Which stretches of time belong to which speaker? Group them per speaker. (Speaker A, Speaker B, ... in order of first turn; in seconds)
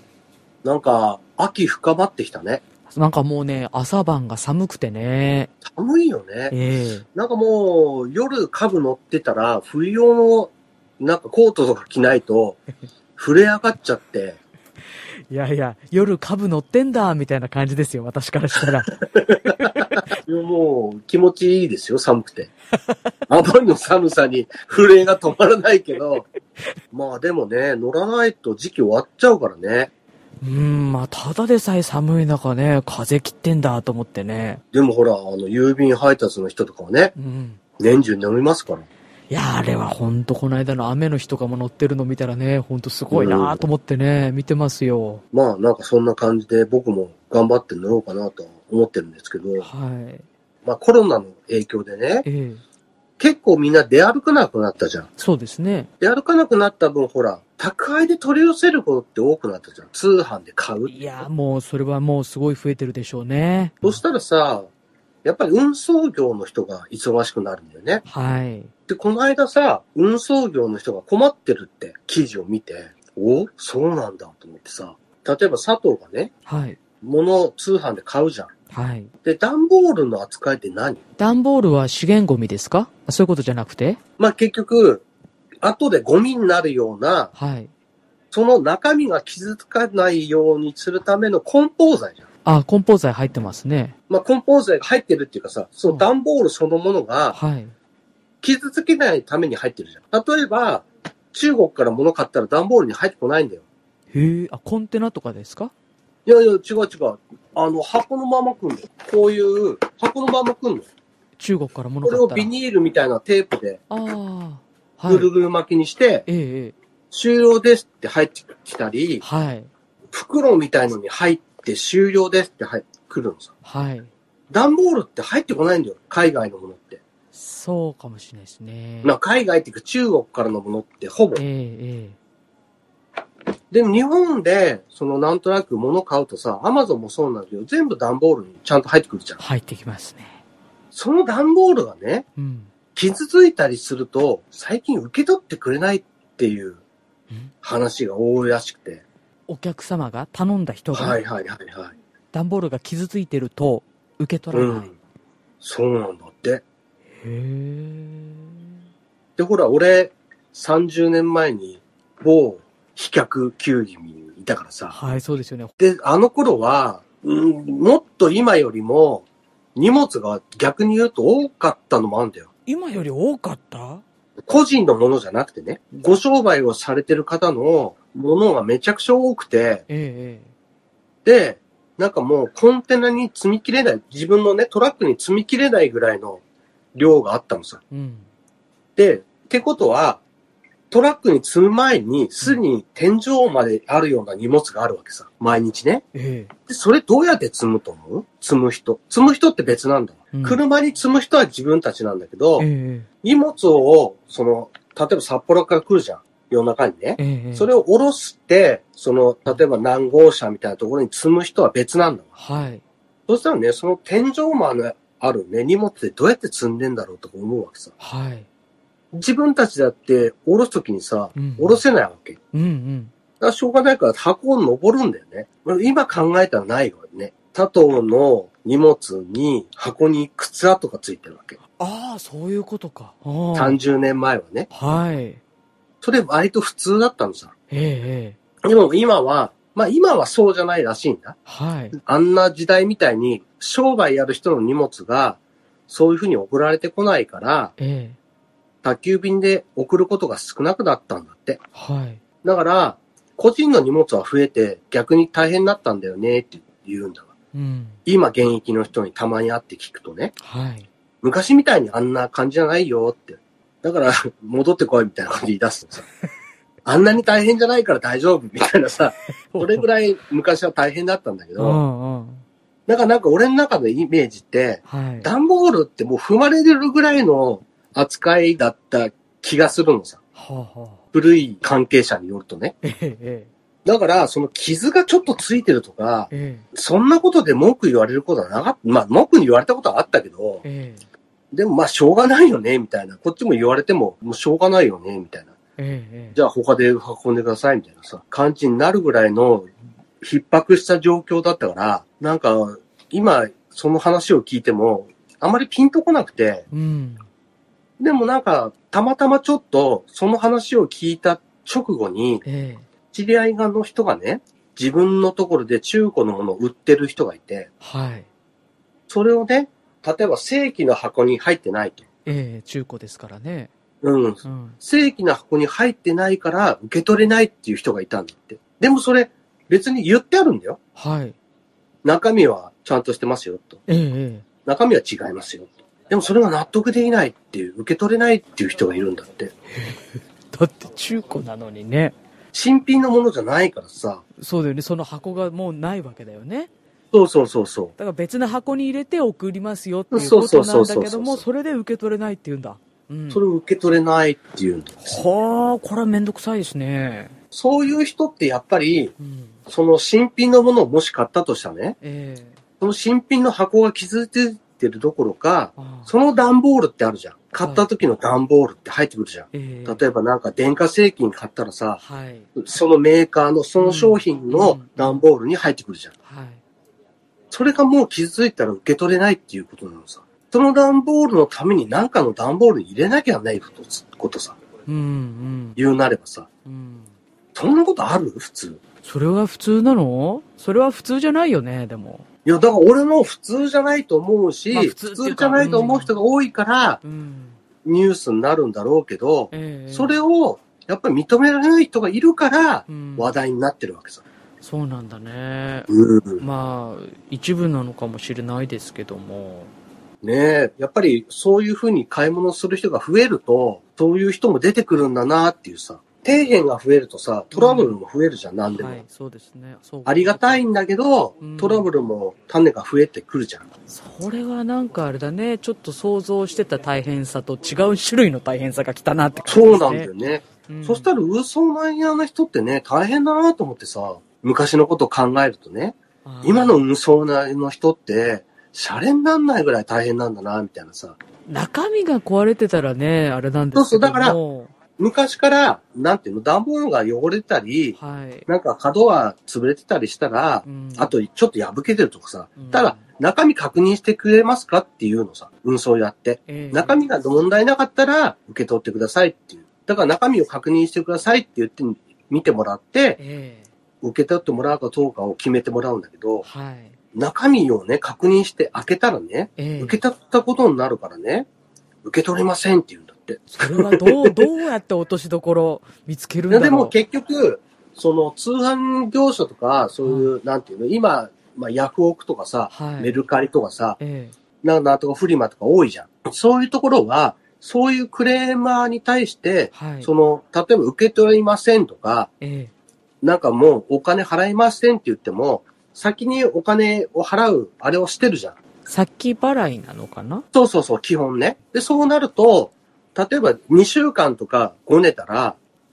Speaker A: 0.6-2.6, 5.6-6.5, 7.1-12.6, 13.2-14.4, 19.1-22.5, 23.3-26.2, 26.9-29.9, 34.7-37.1, 37.8-38.9, 43.1-43.6, 45.3-49.7, 50.6-52.2, 53.2-55.1, 56.0-61.2, 63.8-64.7, 65.2-68.0, 68.9-76.3, 77.0-78.5, 79.2-81.0, 84.2-85.0, 85.6-87.3, 88.3-92.2, 94.1-97.4, 98.4-103.6, 106.3-110.9, 112.0-113.8, 115.1-116.2, 117.1-119.2, 120.1-123.5, 124.5-127.0, 129.0-131.4, 133.7-139.4, 140.9-142.2, 142.9-146.8, 147.6-149.0, 150.9-151.9, 154.5-154.9, 155.6-156.6, 159.4-164.9, 165.8-172.5, 174.4-179.8, 181.2-186.4, 186.9-187.8, 188.9-190.2, 190.9-196.0, 196.7-202.7, 203.2-212.3, 213.3-217.9, 219.1-222.4, 223.4-231.6, 233.5-234.7, 236.0-237.5, 238.6-241.4, 242.0-247.7, 248.8-251.6, 252.4-257.3, 258.1-260.3, 261.2-266.1, 266.8-271.8, 272.9-280.2, 281.1-282.8, 283.8-290.6, 291.5-295.5, 296.3-306.6, 308.0-312.4, 313.1-317.7, 319.1-322.0, 324.0-330.8, 332.0-333.8, 334.6-339.5, 342.5-344.2, 347.1-347.9, 350.1-351.4, 353.3-355.2, 357.5-359.1, 359.7-362.0, 362.8-372.0, 372.6-376.1, 377.5-384.6, 385.8-386.5, 387.5-388.8, 392.4-397.0, 397.8-404.2, 405.9-406.4, 410.2-419.0, 420.1-423.6, 429.5-441.2, 443.8-444.4, 445.0-447.9, 448.5-463.2, 464.0-466.4, 467.1-471.5, 472.0-474.5, 476.5-484.0, 484.6-492.3, 493.2-498.6, 500.5-505.6
Speaker B: 2.9-5.5, 6.5-7.0, 15.3-20.1, 30.4-34.6, 37.2-37.6, 39.3-45.2, 49.6-50.2, 52.2-52.6, 55.2-55.9, 60.9-64.0, 68.1-68.7, 76.5-76.8, 78.7-79.1, 81.2-84.0, 87.3-87.7, 92.5-93.9, 97.3-97.7, 104.1-105.7, 111.4-112.5, 113.9-115.3, 116.3-116.7, 119.2-119.7, 123.6-124.1, 127.3-129.2, 131.3-132.2, 139.4-140.4, 142.4-142.7, 149.5-151.2, 152.3-154.9, 157.2-158.6, 164.9-165.7, 172.7-174.0, 179.9-180.5, 187.9-188.3, 196.1-196.5, 200.3-200.6, 202.6-203.1, 207.2-207.7, 212.4-212.8, 218.0-218.5, 221.3-221.8, 222.5-223.1, 231.8-233.8, 234.7-235.4, 237.7-238.4, 241.4-242.0, 247.8-248.2, 251.8-252.2, 257.5-258.0, 260.4-260.9, 269.5-269.9, 271.6-272.4, 274.9-275.3, 280.4-281.0, 282.8-283.5, 286.3-286.6, 290.6-291.0, 295.8-296.4, 306.7-307.2, 312.4-312.9, 317.8-318.3, 322.2-323.7, 324.4-324.8, 331.0-331.4, 333.9-334.4, 339.7-342.1, 344.4-346.7, 348.0-353.4, 355.0-357.3, 359.2-359.6, 362.0-362.6, 365.8-366.1, 367.6-367.9, 369.5-370.0, 372.0-372.5, 373.8-375.2, 376.2-376.6, 384.9-385.8, 386.6-387.1, 389.0-392.2, 394.7-396.1, 397.0-397.6, 399.5-400.2, 402.9-403.3, 404.6-409.7, 417.5-417.9, 418.7-420.6, 421.4-421.9, 423.9-431.1, 436.2-436.8, 441.5-444.7, 448.0-448.5, 450.6-451.1, 452.6-453.1, 456.5-457.0, 463.2-463.7, 466.4-466.9, 469.6-470.0, 473.5-476.9, 480.0-480.3, 482.7-483.2, 484.0-484.3, 489.7-490.1, 492.4-492.7, 498.9-500.4